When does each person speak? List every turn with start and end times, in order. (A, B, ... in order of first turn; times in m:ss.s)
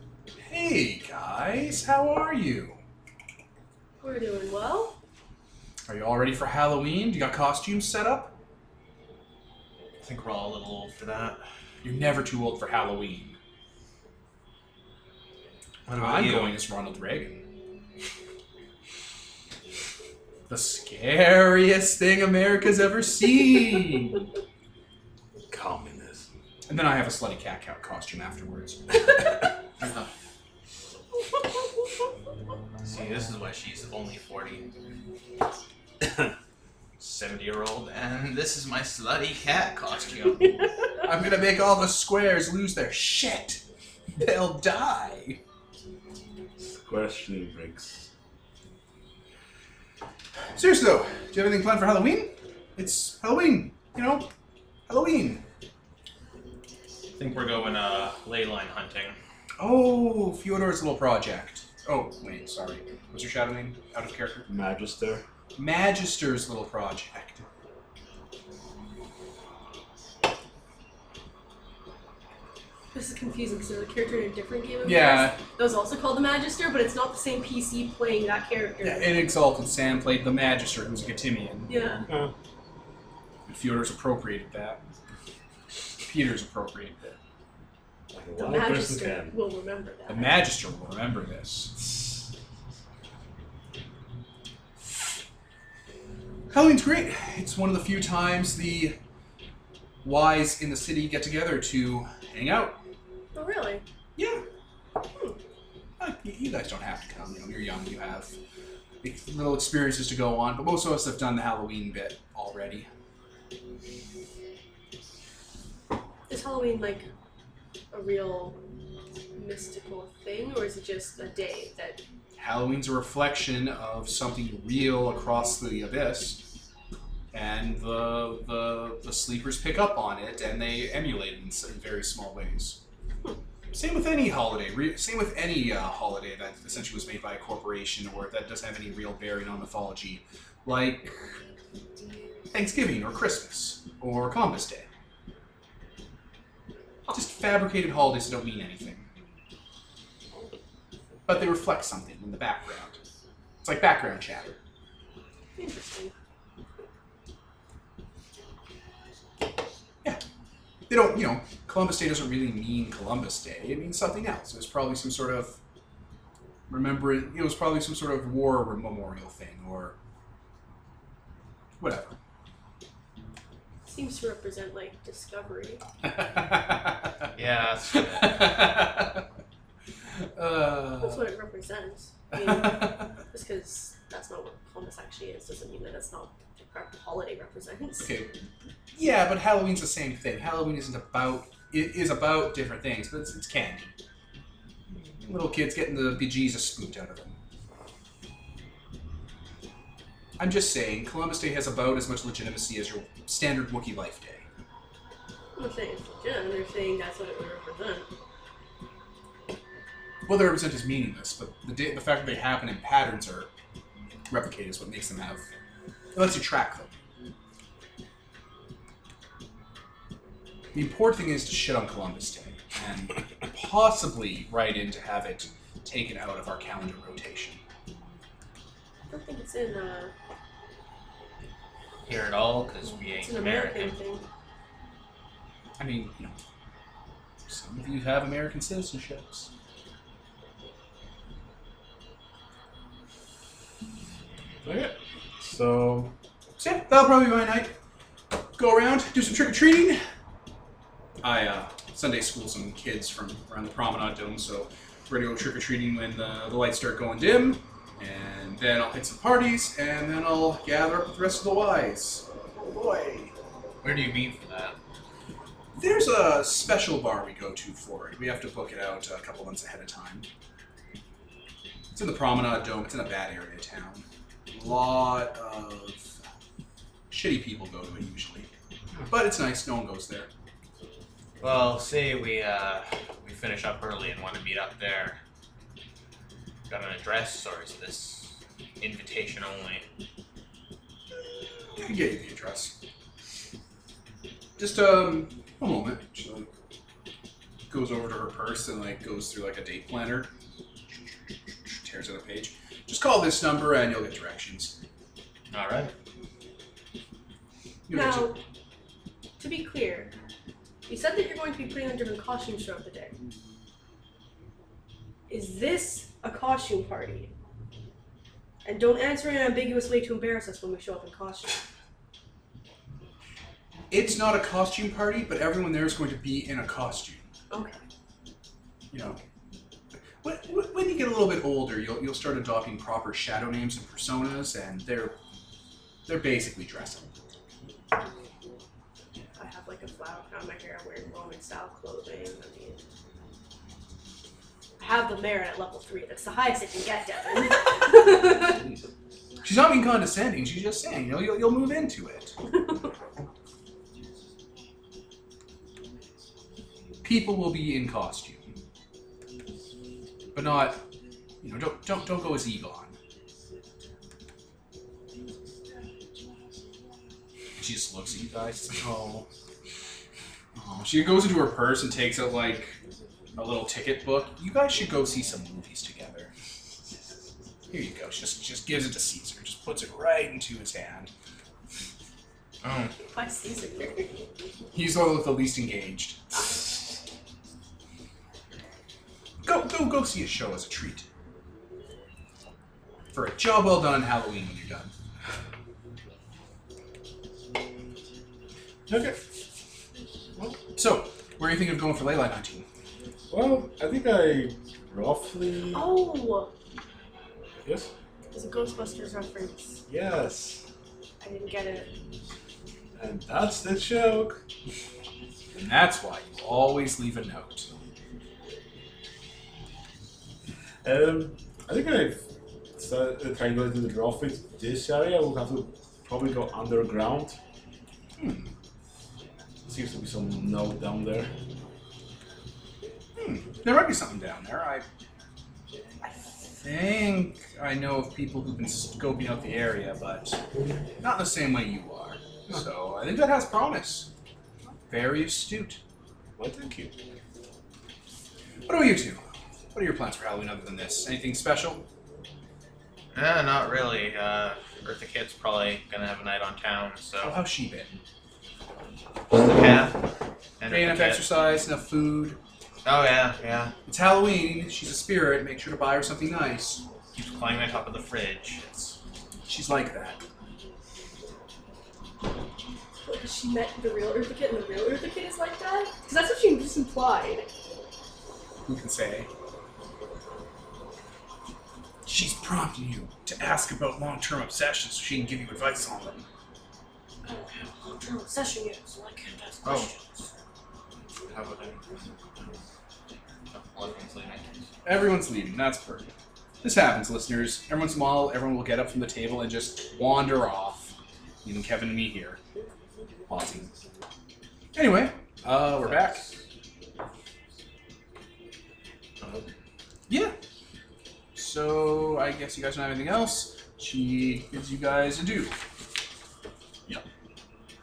0:00.5-0:02.8 A
0:04.0-0:05.0 B
0:05.9-0:08.4 A
0:10.0-0:11.4 C
0:11.8-0:13.4 A
0:15.9-0:16.6 C
0:16.0-0:17.4 A
0:20.5-0:24.3 A
0:25.5-0:26.3 D
0:26.7-0:29.5 A
0:29.8-0:30.1 C
0:32.8-0:34.7 C
0:37.0-0:40.6 C
0:41.0-0:43.6 A
0:44.2-0:45.4 A
0:46.6-0:48.1 D
0:50.6-0:54.3 A
0:54.9-0:55.4 A
0:57.2-0:59.2 C
0:59.6-1:04.5 A
1:04.5-1:05.2 D
1:05.6-1:07.5 A
1:12.9-1:19.2 B
1:14.8-1:15.4 A
1:18.8-1:21.7 A
1:21.7-1:22.1 B
1:22.1-1:22.3 D
1:23.5-1:24.8 A
1:26.0-1:27.0 A
1:28.1-1:29.4 D
1:28.4-1:30.4 B
1:30.1-1:32.1 A
1:36.5-1:39.0 A
1:40.0-1:42.8 A
1:43.3-1:43.8 B
1:44.2-1:44.4 A
1:46.0-1:48.4 A
1:49.0-1:52.9 A
1:56.3-1:57.1 B
1:57.9-1:58.6 B
1:59.4-2:02.0 B
2:02.4-2:06.5 A
2:07.3-2:12.8 A
2:13.7-2:21.2 A
2:22.5-2:24.9 A
2:27.1-2:29.1 A
2:31.3-2:33.0 A
2:33.6-2:34.6 A
2:35.6-2:36.1 B
2:40.9-2:45.6 A
2:46.7-2:50.0 A
2:51.8-2:52.2 A
2:53.9-2:55.8 B
2:56.0-2:57.1 A
2:57.4-2:58.4 C
2:58.0-2:59.2 A
3:00.4-3:01.2 A
3:01.0-3:08.1 B
3:02.3-3:03.1 A
3:08.0-3:08.3 A
3:09.0-3:13.9 A
3:15.2-3:17.4 A
3:20.4-3:24.5 A
3:25.6-3:28.1 B
3:30.3-3:33.5 A
3:34.3-3:35.4 A
3:36.2-3:36.9 A
3:40.7-3:47.6 A
3:49.1-3:50.1 B
3:52.1-3:54.0 C
3:53.1-3:54.3 B
3:55.8-3:56.4 A
3:57.5-3:59.5 A
4:04.6-4:06.1 D
4:06.6-4:07.7 A
4:08.6-4:10.0 A
4:11.2-4:23.3 A
4:23.8-4:24.8 C
4:25.8-4:30.3 A
4:31.9-4:36.2 A
4:37.1-4:38.5 A
4:39.1-4:40.3 A
4:41.4-4:45.2 C
4:46.7-4:49.8 C
4:51.8-4:52.8 A
4:54.6-4:56.5 A
4:57.7-5:00.3 A
5:01.7-5:04.8 A
5:05.5-5:05.9 C
5:07.9-5:08.3 A
5:07.9-5:08.4 B
5:09.4-5:10.1 B
5:10.9-5:13.2 B
5:15.3-5:17.3 B
5:18.6-5:21.6 B
5:23.9-5:27.3 A
5:27.5-5:27.8 B
5:28.9-5:29.2 A
5:30.2-5:35.2 A
5:36.1-5:37.1 A
5:39.4-5:42.8 B
5:44.8-5:48.7 B
5:49.4-5:52.4 A
5:57.0-5:58.5 A
6:00.3-6:00.8 A
6:01.4-6:03.0 A
6:07.6-6:09.2 A
6:10.6-6:12.8 A
6:13.4-6:16.3 A
6:17.7-6:21.1 A
6:22.6-6:22.9 C
6:23.1-6:24.2 B
6:24.7-6:26.5 A
6:26.4-6:26.6 B
6:29.4-6:31.1 A
6:33.1-6:34.9 A
6:38.9-6:39.2 D
6:40.8-6:42.7 A
6:43.3-6:45.9 D
6:45.7-6:46.5 B
6:47.6-6:47.9 D
6:48.3-6:49.8 B
6:49.9-6:50.6 D
6:51.2-6:51.9 B
6:53.0-6:54.4 D
6:55.5-6:57.7 A
7:00.8-7:02.2 D
7:02.8-7:07.4 D
7:08.2-7:08.5 A
7:09.7-7:11.3 D
7:13.2-7:14.8 A
7:16.0-7:20.4 A
7:21.0-7:24.1 A
7:24.9-7:25.8 A
7:26.4-7:26.9 D
7:28.7-7:31.9 A
7:33.1-7:37.4 C
7:37.2-7:38.0 A
7:39.3-7:41.2 C
7:40.7-7:42.4 A
7:42.8-7:43.7 C
7:43.9-7:46.8 A
7:47.2-7:49.0 C
7:49.5-7:50.2 A
7:53.0-7:57.5 B
7:58.7-7:59.3 A
8:02.0-8:06.3 A
8:07.2-8:10.3 B
8:09.6-8:09.9 C
8:11.2-8:12.0 C
8:13.5-8:14.7 C
8:14.8-8:16.1 A
8:16.6-8:22.4 A
8:23.3-8:23.7 A
8:24.7-8:26.2 A
8:30.1-8:30.4 A
8:31.4-8:35.6 A